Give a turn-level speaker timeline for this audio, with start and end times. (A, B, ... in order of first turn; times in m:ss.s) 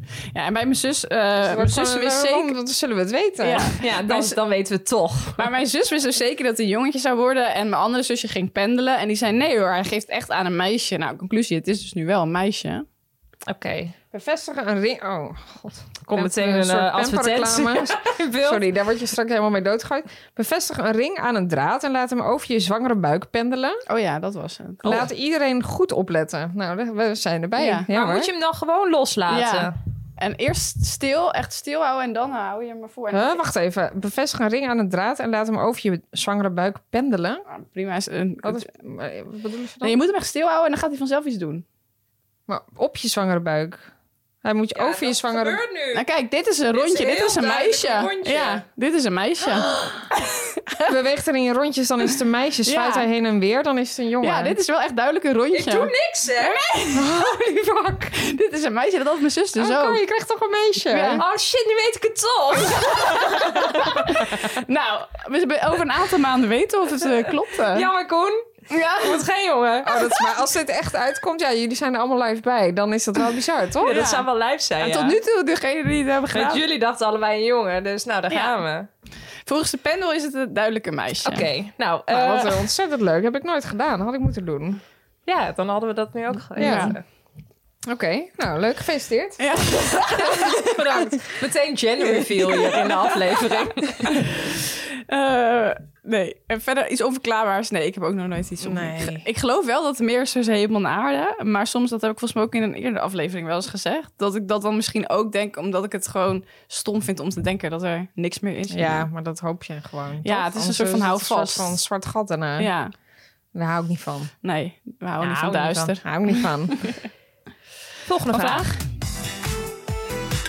0:00.3-0:02.5 A
0:01.4-0:03.7 B
0:03.4-0:04.4 A
0:03.8-0:05.4 C
0:05.4-0:12.8 A
0:13.5-0:14.0 C
0:14.1-0:23.8 B
0:16.0-0:18.6 C
0:23.9-0:25.0 A
0:24.8-0:28.3 B
0:27.6-0:27.9 A
0:27.9-0:29.7 C
0:29.3-0:33.4 A
0:33.1-0:37.4 B
0:37.5-0:38.6 A
0:38.4-0:40.0 B
0:39.8-0:41.6 A
0:42.5-0:43.9 B
0:44.4-0:45.6 B
0:44.8-0:46.0 C
0:45.9-0:50.6 A
0:46.7-0:48.6 C
0:50.8-0:54.6 B
0:52.6-0:53.1 A
0:54.2-0:57.1 A
0:55.5-0:56.8 C
0:56.9-0:58.2 B
0:58.2-1:00.0 A
0:59.6-1:01.2 B
1:00.9-1:01.2 A
1:01.1-1:04.5 C
1:02.8-1:07.9 A
1:07.5-1:10.0 C
1:08.7-1:09.2 A
1:09.8-1:14.0 B
1:13.8-1:15.2 C
1:13.9-1:14.2 A
1:14.8-1:16.6 A
1:16.3-1:18.9 C
1:18.3-1:18.6 A
1:19.4-1:21.5 A
1:21.2-1:22.6 C
1:22.1-1:24.8 B
1:25.2-1:27.0 C
1:26.5-1:27.0 B
1:26.6-1:27.0 A
1:27.8-1:29.4 B
1:29.4-1:30.5 A
1:30.2-1:34.2 C
1:35.1-1:49.1 A
1:38.6-1:39.3 B
1:48.7-1:52.7 B
1:50.2-1:51.8 A
1:52.6-1:52.9 A
1:53.5-1:54.3 B
1:54.4-1:57.0 A
1:55.2-1:55.9 C
1:56.0-1:57.0 B
1:58.0-1:58.7 C
1:58.3-1:58.7 A